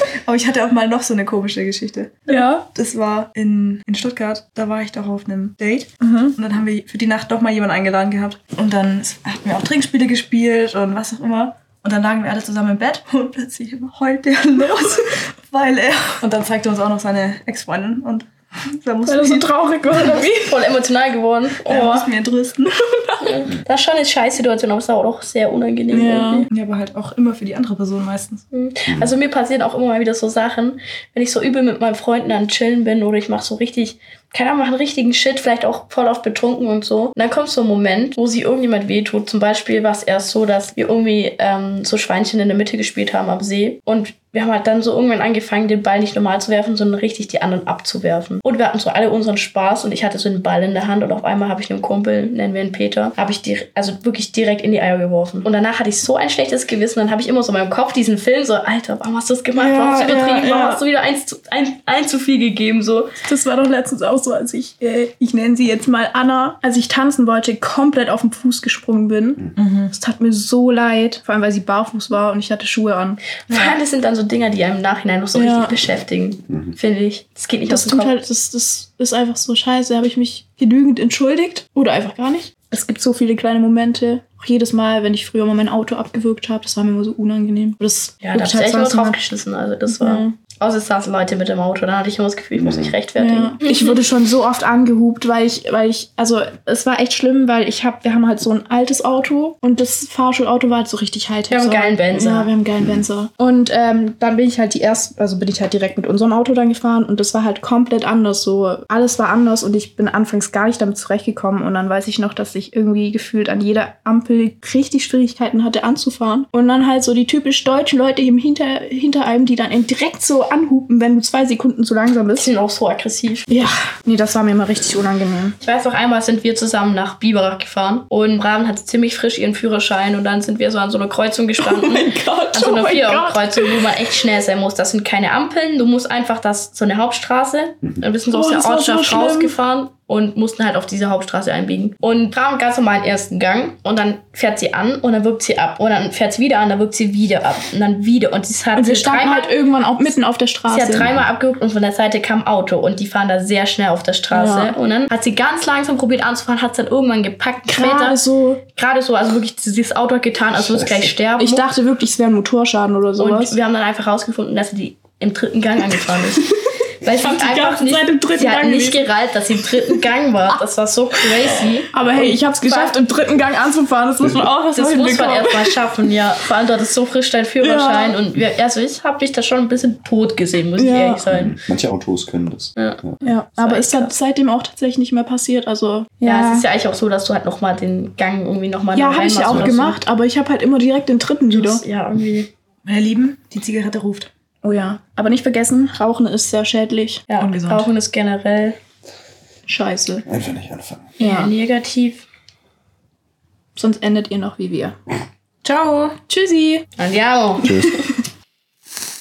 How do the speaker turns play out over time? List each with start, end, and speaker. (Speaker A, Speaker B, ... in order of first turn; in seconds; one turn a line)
Speaker A: 0.2-19.5
Speaker B: 2.3-2.7
Speaker B: 6.0-6.4
Speaker B: 19.1-20.6
Speaker C: 20.0-22.1
Speaker A: 21.6-22.7
Speaker B: 22.9-23.4
Speaker C: 23.2-26.5
Speaker B: 25.9-26.5
Speaker A: 26.5-28.4
Speaker C: 28.5-63.1
Speaker D: 28.9-29.1
Speaker B: 59.6-60.8
Speaker B: 63.2-73.3
Speaker A: 69.6-69.9
Speaker C: 73.5-78.2
Speaker B: 75.3-75.8
Speaker D: 76.5-76.8
Speaker B: 77.7-89.2
Speaker C: 88.2-93.9
Speaker B: 89.9-90.3
Speaker D: 92.6-92.9
Speaker B: 93.2-122.5
Speaker C: 101.5-102.5
Speaker C: 122.3-123.5
Speaker B: 123.5-125.5
Speaker C: 125.6-150.1
Speaker B: 131.6-133.9
Speaker B: 138.3-139.5
Speaker B: 148.8-151.1
Speaker C: 150.7-158.2
Speaker D: 150.9-151.2
Speaker B: 154.3-154.8
Speaker B: 157.7-158.6
Speaker C: 158.7-161.7
Speaker D: 160.5-161.1
Speaker B: 161.4-163.6
Speaker C: 163.2-166.4
Speaker C: 167.0-173.0
Speaker B: 167.1-169.1
Speaker B: 171.9-175.7
Speaker C: 174.7-181.6
Speaker B: 177.6-178.2
Speaker B: 180.8-181.2
Speaker D: 181.3-183.2
Speaker B: 183.2-186.7
Speaker C: 183.6-184.1
Speaker C: 186.2-190.0
Speaker B: 188.9-191.8
Speaker D: 189.5-189.8
Speaker C: 191.5-192.5
Speaker A: 192.8-194.3
Speaker B: 194.6-197.3
Speaker C: 197.3-198.8
Speaker A: 197.3-197.9
Speaker B: 199.7-200.2
Speaker D: 200.3-201.1
Speaker B: 201.2-201.5
Speaker C: 201.2-202.3
Speaker B: 203.8-205.0
Speaker A: 205.7-206.1
Speaker B: 205.8-206.8
Speaker C: 207.0-207.9
Speaker D: 207.6-207.9